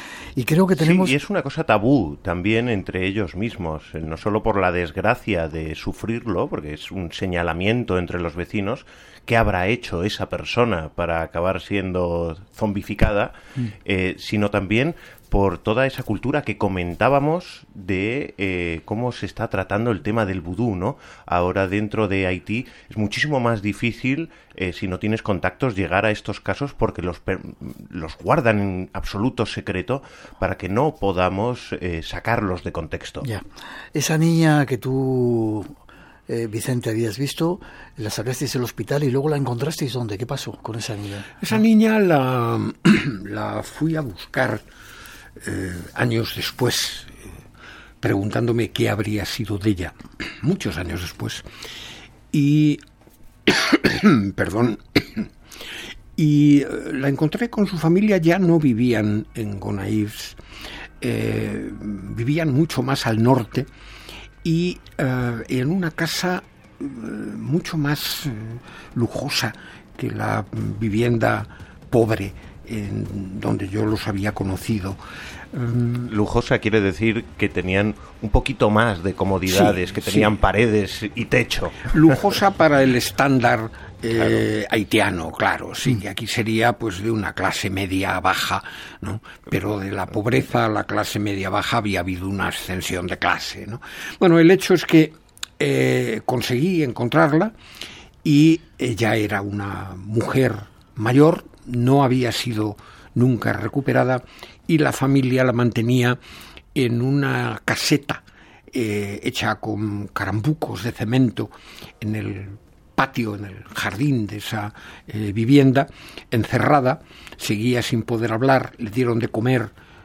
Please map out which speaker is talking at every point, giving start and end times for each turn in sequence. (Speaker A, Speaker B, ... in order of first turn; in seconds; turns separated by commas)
Speaker A: 0.3-1.1, Speaker B: 0.8-33.2, Speaker A: 33.2-35.8, Speaker A: 36.3-41.6, Speaker C: 41.4-44.6, Speaker C: 45.4-47.2, Speaker C: 48.0-51.5, Speaker C: 52.3-52.8, Speaker C: 53.5-55.3, Speaker C: 56.1-60.4, Speaker C: 61.0-63.7, Speaker C: 64.4-75.0, Speaker C: 75.5-76.1, Speaker B: 76.0-82.1, Speaker C: 79.5-80.3, Speaker C: 81.9-97.5, Speaker C: 98.2-106.2, Speaker C: 106.7-119.7